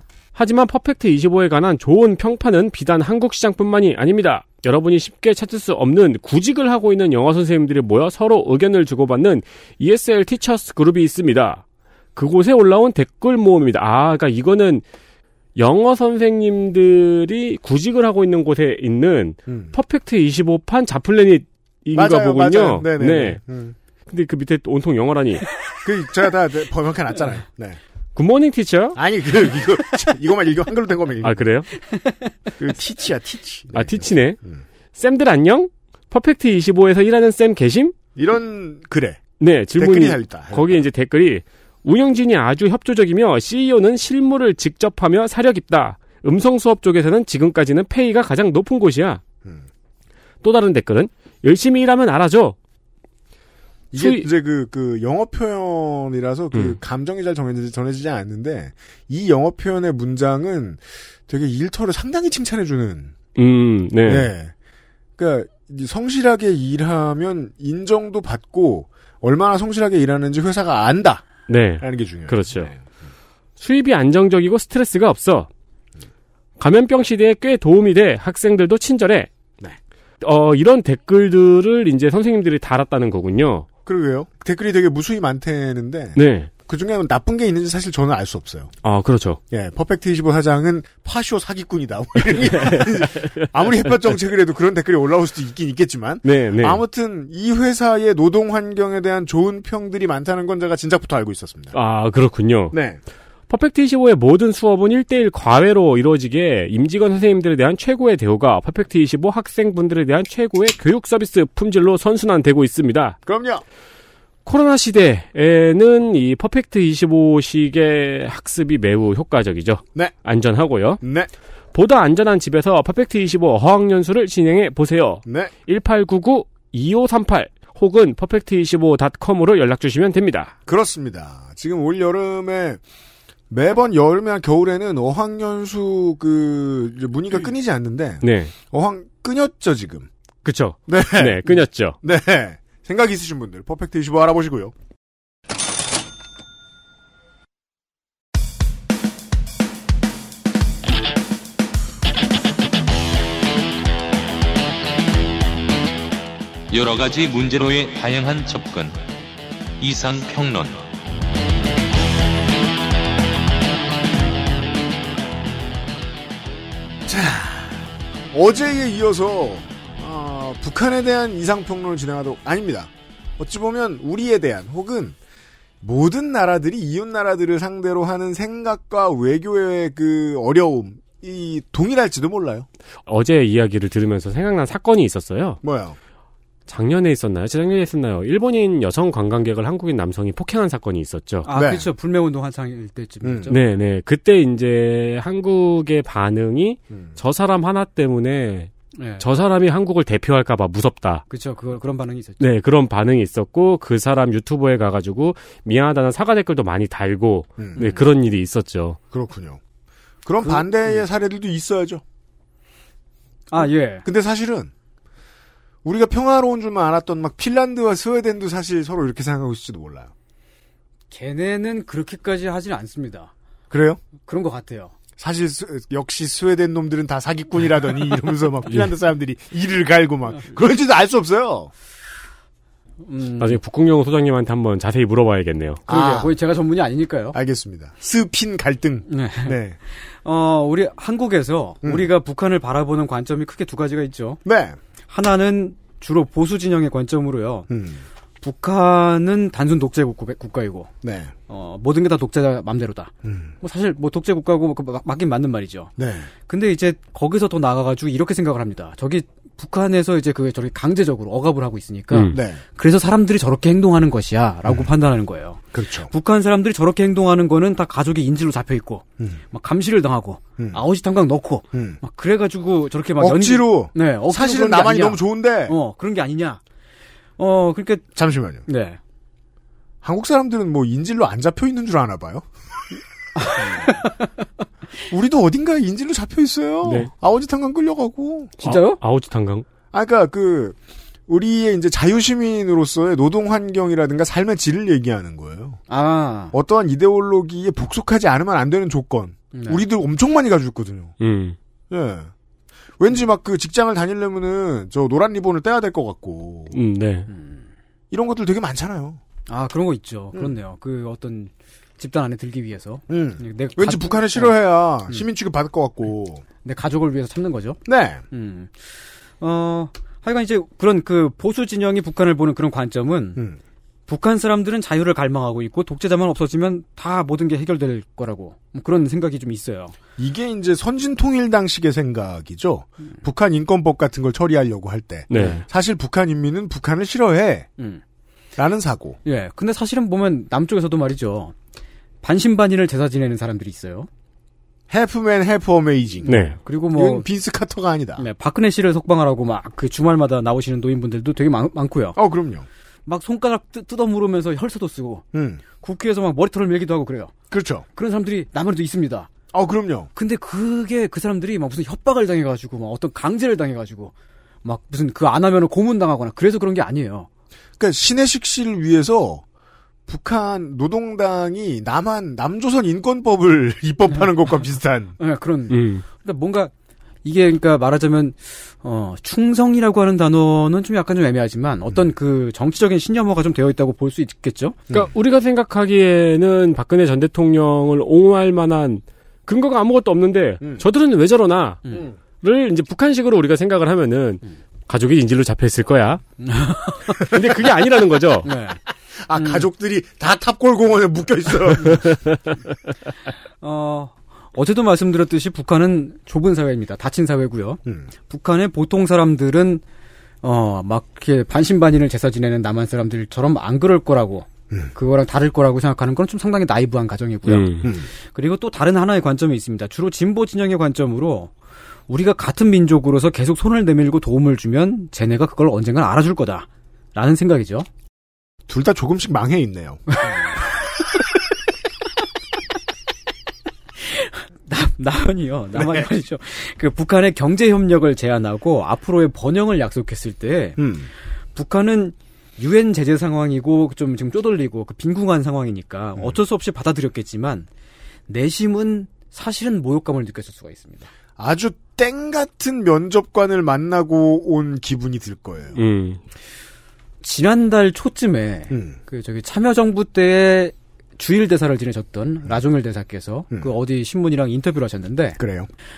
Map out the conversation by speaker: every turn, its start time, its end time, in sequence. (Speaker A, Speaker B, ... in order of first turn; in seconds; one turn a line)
Speaker A: 0.3-11.6
Speaker A: 12.2-14.8
Speaker A: 15.6-23.4
Speaker B: 19.5-19.8
Speaker B: 21.9-23.8
Speaker A: 24.1-25.5
Speaker B: 25.8-27.8
Speaker A: 28.1-29.0
Speaker B: 28.9-31.4
Speaker A: 31.2-31.7
Speaker B: 32.6-34.6
Speaker A: 33.8-34.4
Speaker A: 35.0-37.9
Speaker B: 38.2-40.9
Speaker A: 39.4-49.2
Speaker A: 50.4-52.6
Speaker B: 53.9-63.2
Speaker A: 53.9-54.3
Speaker A: 56.5-56.8
Speaker A: 63.4-64.3
Speaker B: 64.0-64.5
Speaker B: 65.2-71.3
Speaker A: 71.5-72.7
Speaker B: 71.8-72.8
Speaker A: 73.6-75.5
Speaker A: 76.6-79.3
Speaker A: 80.2-83.7
Speaker B: 83.9-88.7
Speaker A: 86.2-86.5
Speaker A: 88.8-89.4
Speaker B: 89.5-101.8
Speaker A: 92.5-93.5
Speaker A: 96.2-96.8
Speaker A: 101.7-102.8
Speaker B: 102.7-103.0
Speaker A: 103.5-113.2
Speaker B: 113.2-113.6
Speaker A: 114.5-121.0
Speaker B: 121.0-121.3
Speaker A: 121.7-130.5
Speaker B: 125.3-125.5
Speaker B: 130.7-132.8
Speaker B: 133.5-140.1
Speaker A: 138.2-138.5
Speaker A: 140.4-142.0
Speaker B: 140.9-144.7
Speaker C: 156.7-159.0
Speaker C: 159.8-160.8
Speaker B: 167.1-175.2
Speaker B: 175.8-182.7
Speaker A: 183.1-185.6
Speaker B: 185.6-186.0
Speaker A: 186.7-191.5
Speaker D: 191.5-193.7
Speaker B: 191.5-191.9
Speaker B: 193.2-193.5
Speaker A: 193.5-201.2
Speaker B: 196.9-197.2
Speaker D: 198.9-199.3
Speaker D: 201.3-202.4
Speaker A: 202.4-209.0
Speaker D: 207.8-208.1
Speaker B: 209.1-209.6
Speaker B: 210.2-212.0
Speaker D: 210.4-211.0
Speaker D: 213.5-214.1
Speaker B: 214.0-214.7
Speaker B: 215.8-220.1
Speaker D: 221.1-223.3
Speaker B: 223.7-224.0
Speaker D: 224.3-224.9
Speaker B: 225.2-231.7
Speaker D: 233.0-233.6
Speaker A: 233.4-235.8
Speaker B: 235.9-236.3
Speaker D: 235.9-237.4
Speaker B: 237.3-239.8
Speaker D: 239.1-244.4
Speaker B: 241.8-242.1
Speaker B: 244.4-244.8
Speaker D: 245.1-247.7
Speaker B: 247.7-248.1
Speaker D: 248.4-250.9
Speaker B: 251.0-251.3
Speaker D: 251.5-255.9
Speaker B: 253.2-253.5
Speaker B: 256.0-256.3
Speaker D: 256.5-276.6
Speaker A: 262.1-262.4
Speaker B: 262.3-262.6
Speaker B: 264.6-264.9
Speaker B: 265.7-266.1
Speaker B: 271.7-272.0
Speaker B: 273.2-275.8
Speaker D: 277.4-278.1
Speaker B: 278.2-278.7
Speaker D: 278.7-279.0
Speaker B: 280.0-282.5
Speaker D: 283.4-284.3
Speaker B: 285.1-288.5
Speaker A: 286.8-287.1
Speaker D: 288.6-289.0
Speaker A: 288.6-289.7
Speaker B: 289.9-295.8
Speaker D: 295.9-296.6
Speaker B: 296.5-301.1
Speaker D: 299.5-299.8
Speaker A: 301.2-301.6
Speaker B: 301.9-302.3
Speaker B: 303.0-306.8
Speaker A: 306.7-307.3
Speaker D: 307.3-307.6
Speaker B: 308.1-309.2
Speaker D: 309.5-315.3
Speaker B: 313.1-316.4
Speaker D: 316.6-323.4
Speaker B: 317.9-318.2
Speaker D: 324.1-330.0
Speaker B: 330.2-337.7
Speaker A: 335.3-335.6
Speaker D: 335.4-335.6
Speaker B: 338.6-339.2
Speaker D: 339.2-341.6
Speaker D: 342.2-344.1
Speaker B: 344.9-346.4
Speaker D: 346.2-347.3
Speaker A: 346.3-346.6
Speaker B: 346.9-348.2
Speaker D: 348.2-352.2
Speaker B: 352.2-352.7
Speaker D: 353.1-355.2
Speaker B: 355.3-355.6
Speaker D: 355.8-357.3
Speaker B: 357.5-357.9
Speaker D: 358.0-359.3
Speaker B: 359.5-360.1
Speaker D: 360.1-364.1
Speaker D: 364.6-367.3
Speaker B: 367.8-369.4
Speaker B: 370.1-375.1
Speaker D: 375.2-376.7
Speaker A: 375.7-376.0
Speaker D: 377.2-384.8
Speaker A: 384.9-396.2
Speaker D: 396.4-397.3
Speaker A: 397.2-398.5
Speaker D: 398.4-398.8
Speaker B: 399.1-402.0
Speaker D: 399.4-399.7
Speaker A: 402.1-402.6
Speaker D: 403.6-409.8
Speaker D: 410.4-421.5
Speaker A: 417.5-417.9
Speaker B: 417.8-418.1
Speaker D: 422.1-427.9
Speaker B: 428.7-430.0
Speaker D: 430.1-430.5
Speaker D: 434.0-440.8
Speaker B: 435.8-436.1
Speaker B: 440.8-441.1
Speaker D: 441.6-447.7
Speaker D: 448.3-451.1
Speaker B: 451.4-455.8
Speaker A: 455.8-456.2
Speaker D: 457.2-465.4
Speaker B: 458.7-459.0
Speaker B: 465.4-465.7